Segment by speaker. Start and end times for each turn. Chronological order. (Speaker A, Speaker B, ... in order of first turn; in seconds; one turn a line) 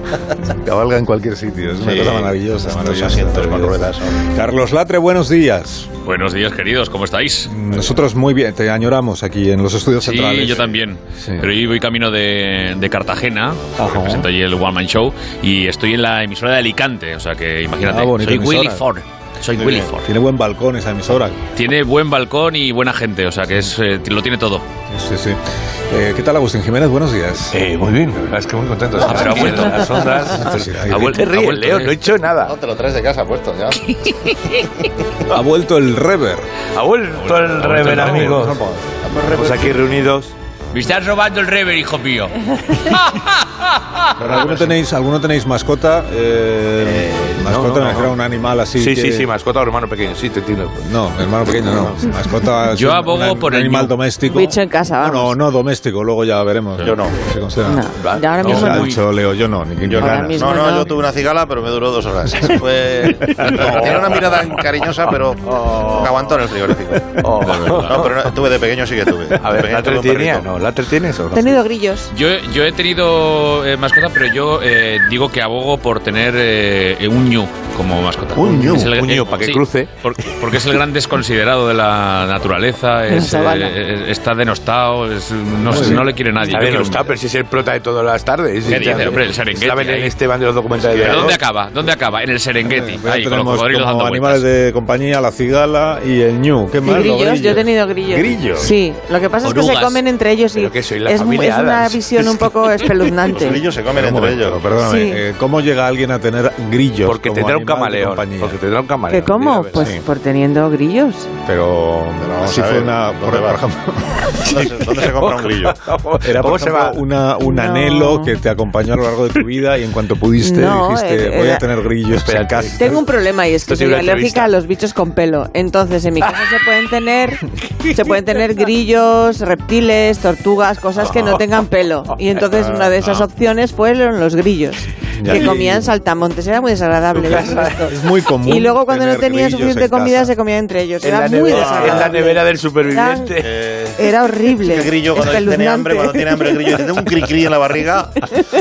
Speaker A: 0.6-5.9
Speaker B: 1.8-4.2
Speaker C: 6.0-7.5
Speaker A: 7.5-11.5
Speaker C: 10.0-20.1
Speaker A: 13.8-14.2
Speaker A: 17.8-18.8
Speaker B: 19.6-19.9
Speaker A: 20.0-21.4
Speaker C: 21.5-24.6
Speaker A: 24.9-27.6
Speaker D: 27.5-32.5
Speaker C: 29.0-29.9
Speaker A: 30.3-31.2
Speaker C: 31.0-32.0
Speaker B: 32.5-34.0
Speaker A: 35.3-36.5
Speaker D: 36.7-38.6
Speaker C: 37.1-38.4
Speaker A: 37.8-39.0
Speaker B: 39.0-39.8
Speaker D: 39.3-40.3
Speaker C: 40.7-42.9
Speaker A: 44.2-49.3
Speaker B: 44.2-44.6
Speaker B: 46.8-47.3
Speaker D: 47.4-48.1
Speaker D: 48.8-50.8
Speaker A: 50.8-57.9
Speaker C: 52.7-53.9
Speaker E: 54.2-55.4
Speaker B: 56.8-57.1
Speaker E: 57.6-58.9
Speaker D: 58.0-58.6
Speaker A: 58.4-60.5
Speaker C: 58.5-59.0
Speaker B: 59.9-67.3
Speaker E: 60.0-60.9
Speaker A: 63.4-63.9
Speaker D: 63.7-64.0
Speaker D: 67.2-68.2
Speaker C: 67.4-68.0
Speaker B: 67.8-70.5
Speaker D: 69.4-71.6
Speaker E: 71.3-72.1
Speaker C: 72.1-87.1
Speaker A: 78.4-78.8
Speaker B: 78.4-78.8
Speaker D: 78.5-79.9
Speaker E: 83.1-83.8
Speaker A: 85.7-86.1
Speaker D: 85.7-91.4
Speaker C: 88.6-90.1
Speaker C: 90.9-94.4
Speaker A: 92.6-98.7
Speaker E: 96.8-103.6
Speaker C: 99.4-100.0
Speaker D: 100.5-102.4
Speaker B: 103.3-104.8
Speaker A: 103.9-108.6
Speaker E: 104.8-105.2
Speaker D: 107.0-109.9
Speaker E: 109.1-111.3
Speaker A: 109.7-110.0
Speaker A: 111.4-114.2
Speaker B: 112.2-113.6
Speaker B: 114.5-115.8
Speaker D: 114.5-117.0
Speaker A: 116.2-123.0
Speaker E: 117.4-118.3
Speaker E: 120.4-121.6
Speaker D: 122.2-123.0
Speaker E: 122.8-143.4
Speaker D: 123.7-124.5
Speaker D: 131.1-131.4
Speaker A: 135.2-135.8
Speaker D: 137.3-137.7
Speaker A: 137.3-140.3
Speaker D: 141.0-143.4
Speaker A: 141.5-142.1
Speaker B: 143.4-144.0
Speaker E: 144.0-146.7
Speaker B: 144.6-148.3